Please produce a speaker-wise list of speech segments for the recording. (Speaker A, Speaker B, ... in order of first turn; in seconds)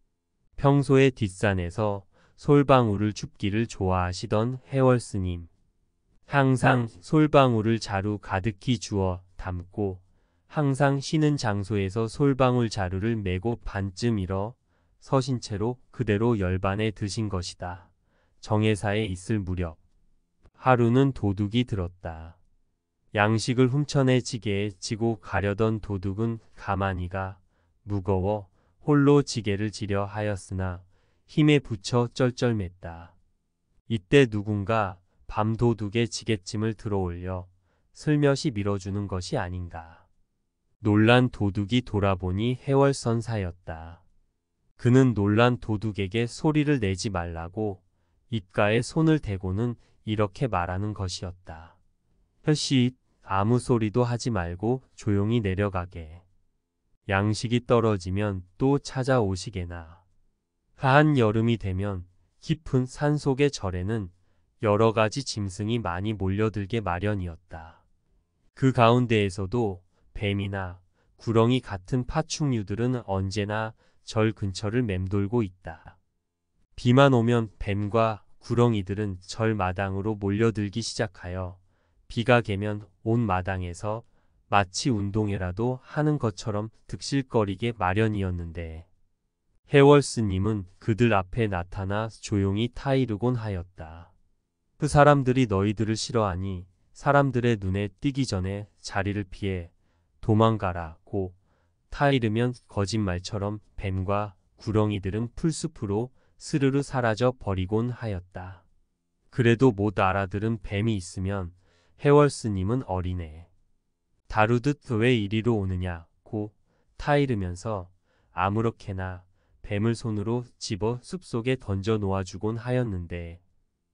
Speaker A: 0.6-5.5, 6.3-17.9, 18.4-19.8, 20.6-22.4, 23.1-33.1, 33.9-40.0, 40.8-44.0, 44.8-51.8, 52.4-56.2, 57.1-60.0, 60.8-67.8, 68.5-76.0, 76.8-88.9, 89.7-94.1, 94.8-101.3, 101.9-108.6, 109.3-113.5, 114.3-123.4